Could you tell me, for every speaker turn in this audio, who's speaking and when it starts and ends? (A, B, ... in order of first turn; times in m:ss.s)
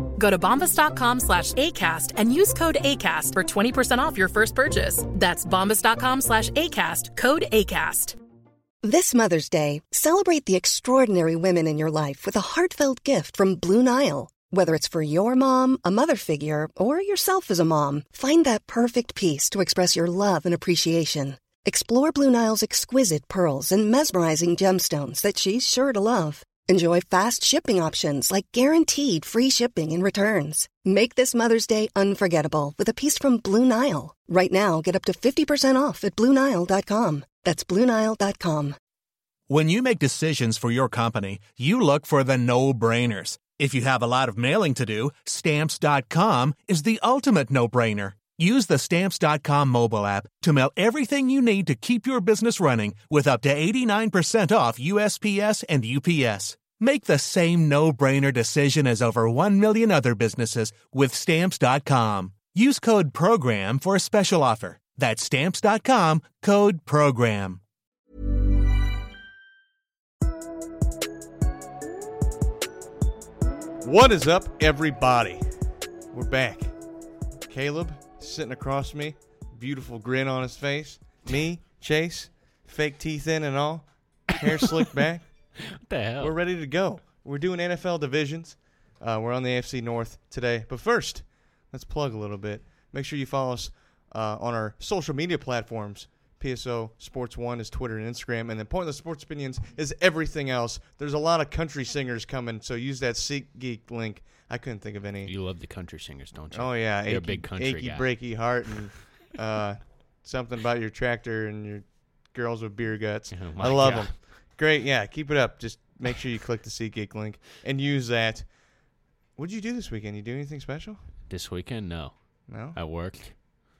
0:00.2-0:08.2 A
0:08.8-0:38.8 B
0:39.5-1:07.6 C
1:13.8-1:15.4 D
1:16.1-1:16.7 D
1:17.5-1:25.2 D
1:25.6-1:26.4 E
1:26.2-1:45.3 D
1:45.2-1:48.5 E
1:46.5-1:58.5 D
1:53.3-1:54.1 E
1:59.4-2:01.0 D
2:01.3-2:02.1 E
2:02.5-2:02.8 D
2:02.7-2:03.4 E